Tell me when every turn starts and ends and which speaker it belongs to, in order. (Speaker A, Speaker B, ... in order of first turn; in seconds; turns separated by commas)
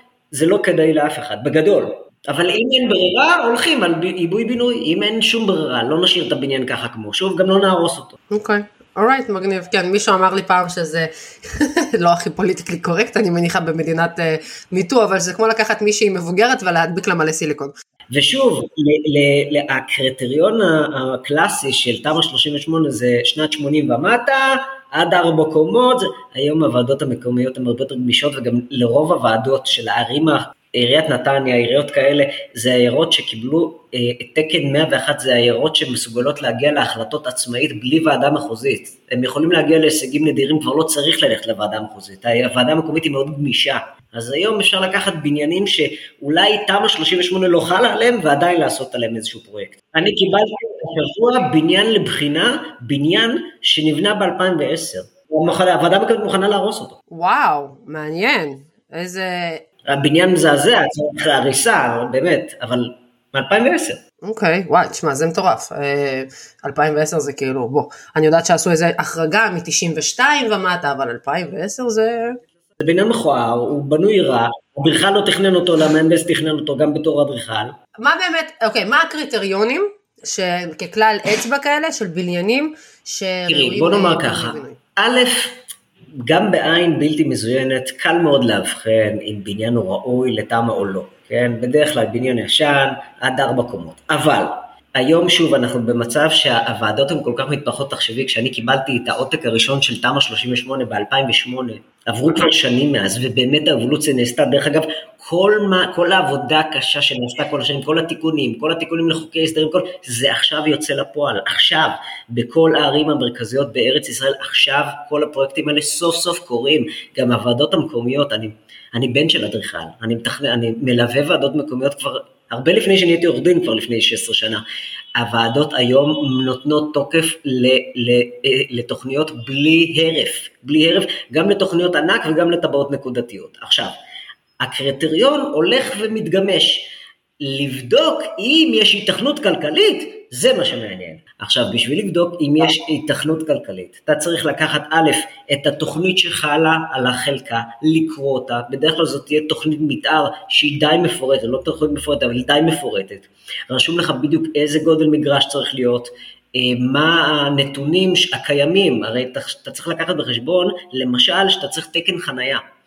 Speaker A: 0.3-8.2, Speaker B: 8.3-17.7, Speaker A: 18.1-57.0, Speaker B: 57.1-59.6, Speaker A: 59.9-64.0, Speaker B: 64.2-72.4, Speaker A: 72.8-77.8, Speaker B: 78.0-84.8, Speaker A: 83.5-85.6, Speaker A: 86.2-124.6, Speaker A: 125.2-133.9, Speaker A: 134.6-136.9, Speaker A: 137.4-162.6